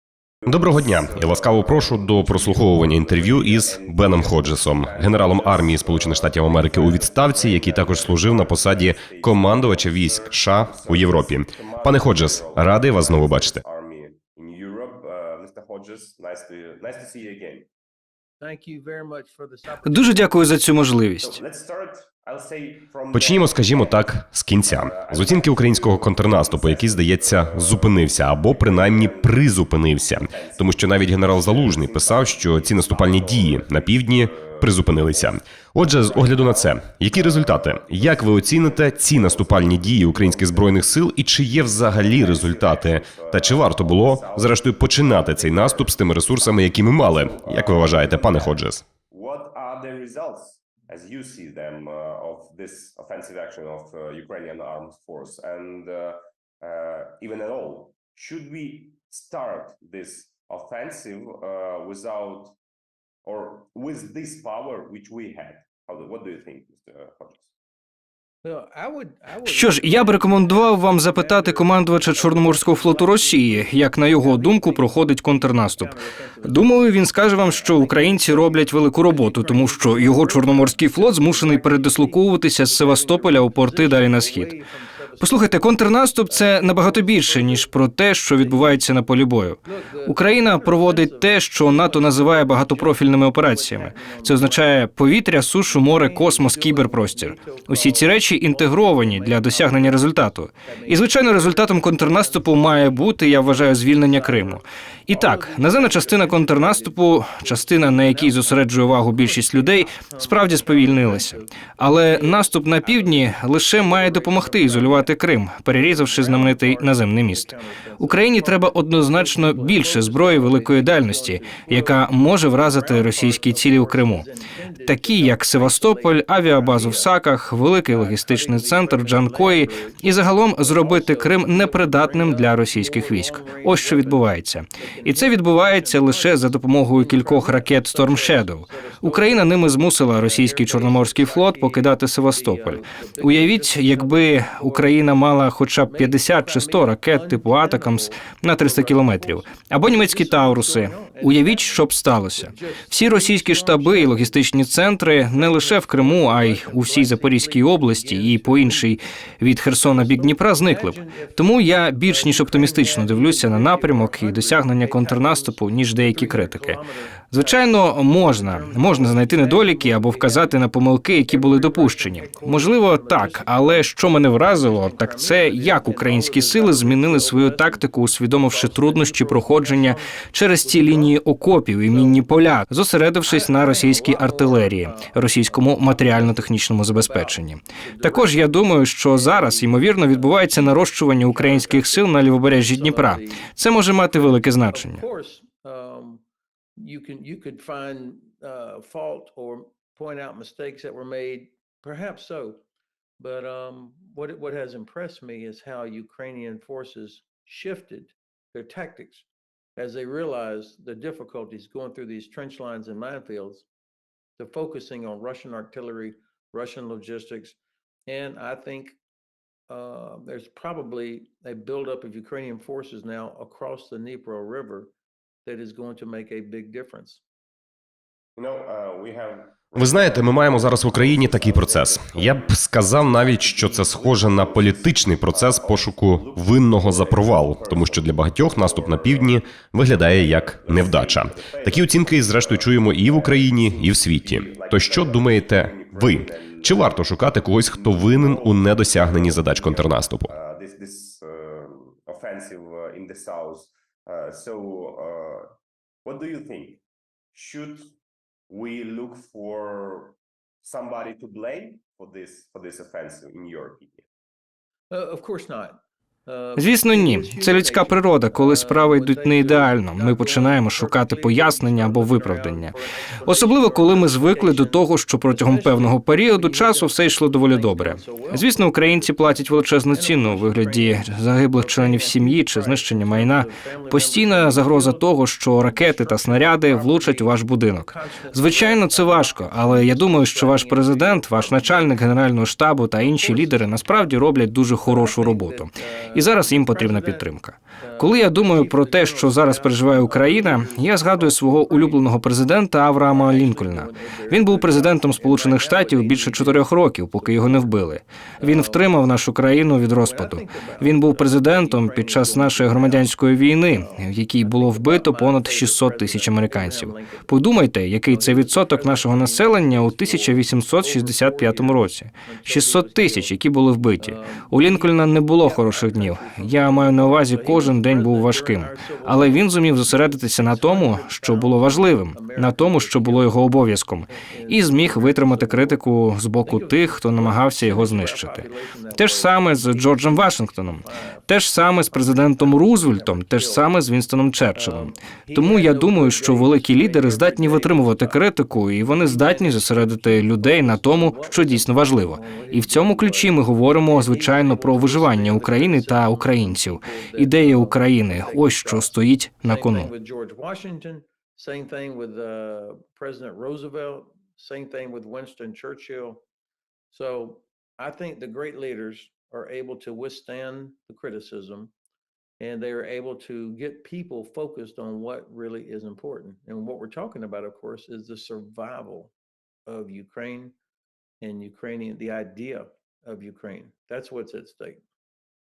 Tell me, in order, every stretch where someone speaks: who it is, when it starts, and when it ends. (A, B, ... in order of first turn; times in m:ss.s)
0:00.4-0:17.7 A
0:00.5-0:13.6 B
0:18.4-0:20.6 C
0:19.8-0:21.4 D
0:21.2-0:24.1 A
0:23.1-0:48.8 B
0:24.6-0:40.8 A
0:41.5-1:02.5 A
1:03.2-1:07.5 A
1:08.4-1:27.8 C
1:09.4-1:24.5 D
1:25.2-2:04.2 D
1:28.3-1:28.8 C
1:29.6-1:34.9 C
1:35.6-1:55.1 C
1:55.7-2:07.1 C
2:04.8-2:46.8 D
2:07.9-2:25.0 C
2:25.8-2:34.4 C
2:35.3-2:39.1 C
2:39.8-2:50.6 C
2:47.3-3:15.0 D
2:51.2-3:01.2 C
3:01.9-3:02.5 C
3:03.2-3:13.5 C
3:14.1-3:16.2 C
3:16.8-3:22.6 C
3:23.2-3:29.2 C
3:29.8-3:33.7 C
3:34.4-3:37.6 C
3:38.1-3:39.0 C
3:39.7-3:44.9 C
3:45.4-3:47.2 C
3:48.4-4:15.5 A
3:49.8-4:10.3 B
4:16.0-4:16.8 A
4:17.3-4:17.9 A
4:18.5-4:24.0 A
4:24.9-4:52.1 C
4:26.6-4:32.7 D
4:33.2-5:59.9 D
4:53.0-4:54.2 C
4:54.8-5:02.1 C
5:03.0-5:07.7 C
5:08.4-5:09.0 C
5:10.0-5:13.1 C
5:13.6-5:17.4 C
5:18.0-5:23.4 C
5:24.0-5:35.8 C
5:36.4-5:43.7 C
5:44.5-5:48.2 C
5:48.9-6:06.2 C
6:06.9-6:11.7 C
6:12.4-6:19.1 C
6:19.6-6:20.5 C
6:21.2-6:24.8 C